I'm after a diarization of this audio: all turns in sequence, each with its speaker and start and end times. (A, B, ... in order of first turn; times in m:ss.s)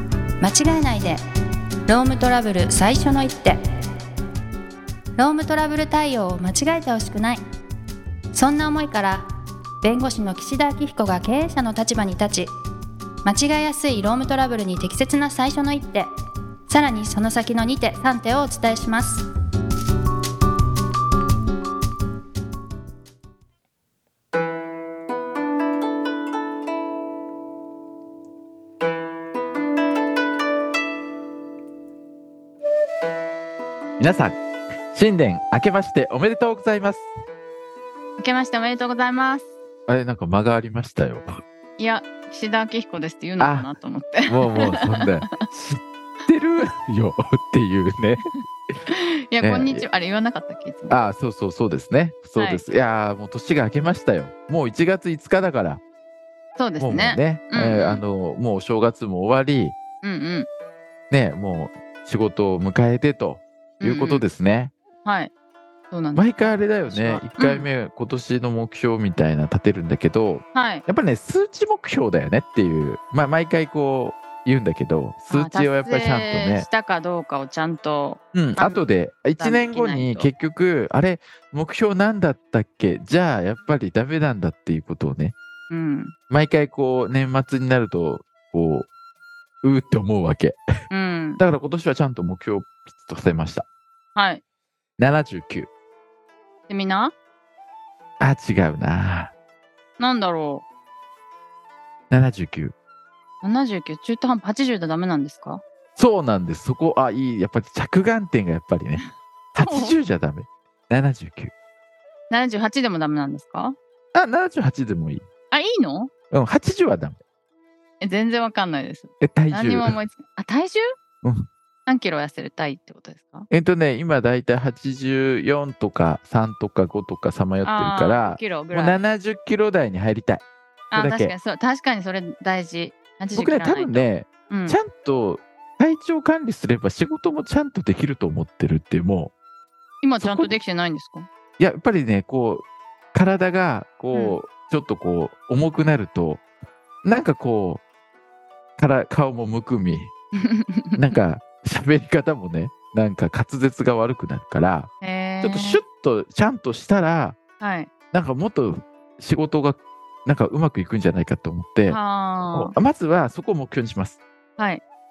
0:00.4-0:01.2 A
0:01.9-0:03.6 A
0:05.2-0:07.4 A
0:08.3-0:09.2 A
0:09.8-0:12.5 A
0:13.2-0:16.1 A
0:16.7-0:19.2 A
0:34.0-0:34.4 B
0:34.9-0:37.1 B
0:38.2-0:39.5 C
0:39.9-0:41.4 B
0:41.8-0:45.1 C
0:43.4-0:43.7 B
0:44.3-0:48.3 B
0:48.9-0:51.0 C
0:49.4-0:49.8 B
0:50.9-0:55.8 B
0:52.4-0:52.6 C
0:56.6-0:58.0 C
0:56.8-0:59.8 B
1:00.0-1:00.5 C
1:01.1-1:04.7 B
1:03.8-1:04.2 C
1:05.0-1:05.3 C
1:05.9-1:07.7 C
1:06.1-1:16.7 B
1:10.5-1:10.8 C
1:15.3-1:18.8 C
1:18.3-1:25.4 B
1:19.4-1:20.3 C
1:25.7-1:26.1 C
1:26.3-1:28.9 B
1:29.6-1:30.6 B
1:30.9-1:31.4 C
1:31.4-1:33.6 B
1:34.1-1:34.4 C
1:35.0-1:35.7 B
1:36.7-1:37.1 C
1:38.2-1:39.3 B
1:40.0-1:40.6 C
1:42.1-1:42.7 B
1:43.4-1:45.6 C
1:46.0-1:51.5 B
1:49.0-1:50.0 C
1:52.3-1:53.8 C
1:54.1-1:55.2 B
1:55.5-1:56.1 C
1:56.3-1:57.2 B
1:58.0-2:00.8 C
1:59.2-2:00.0 B
2:01.2-2:01.5 B
2:01.9-2:03.5 C
2:03.5-2:11.3 B
2:07.6-2:09.0 C
2:10.9-2:14.8 C
2:13.3-2:19.3 B
2:20.0-2:21.3 C
2:20.2-2:20.5 B
2:21.6-2:26.4 B
2:27.0-2:27.8 B
2:28.8-2:30.1 B
2:30.4-2:31.2 C
2:31.0-2:34.9 B
2:35.0-2:35.8 C
2:35.4-2:37.4 B
2:37.6-2:37.9 C
2:38.1-2:42.0 B
2:41.9-2:42.7 C
2:42.5-2:44.2 B